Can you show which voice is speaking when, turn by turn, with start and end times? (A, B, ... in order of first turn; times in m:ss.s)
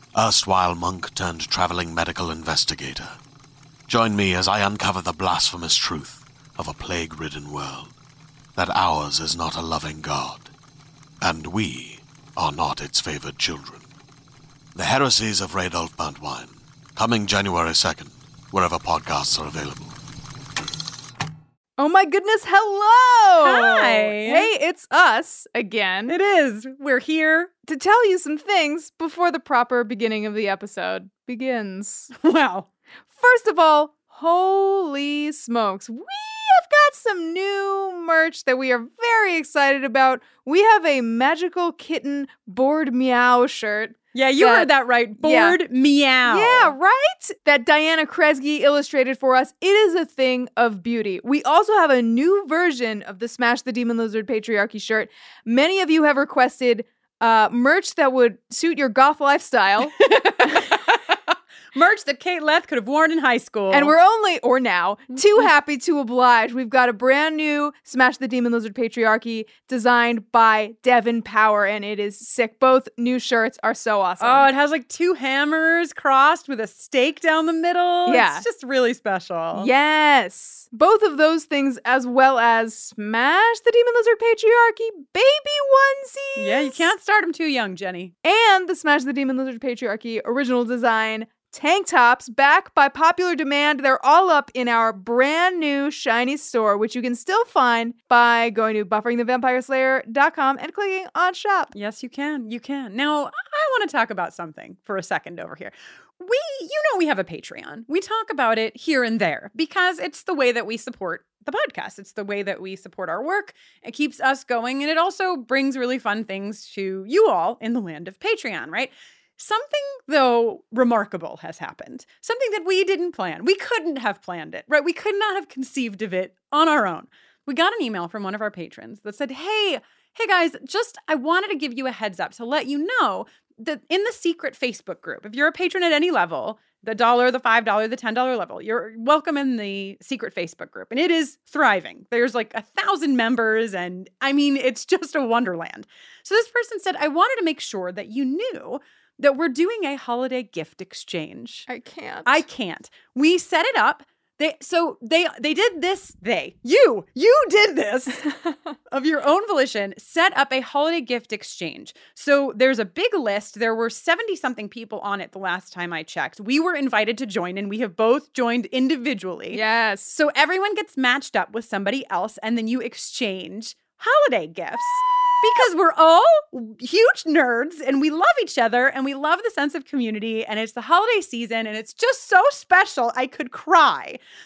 0:00.2-0:03.2 A
0:03.9-0:07.9 A
0:08.6-0:10.5 A
0:11.2-0:13.9 A
0:14.8-0:19.9 A
0:21.8-0:26.2 B
0:23.4-0:24.5 C
0:26.1-0:27.5 C
0:27.7-0:32.1 B
0:32.1-0:32.7 C
0:33.2-0:45.6 B
0:44.1-0:46.8 C
0:46.3-1:00.7 B
1:00.0-1:01.2 C
1:01.7-1:04.0 C
1:03.7-1:14.5 B
1:05.2-1:05.5 C
1:14.2-1:19.7 C
1:18.1-1:18.4 B
1:19.6-1:26.9 B
1:26.4-1:28.1 C
1:28.2-1:41.7 B
1:41.7-2:31.7 C
2:31.7-2:32.4 B
2:32.3-2:38.2 C
2:38.9-3:04.2 C
2:49.5-2:50.1 B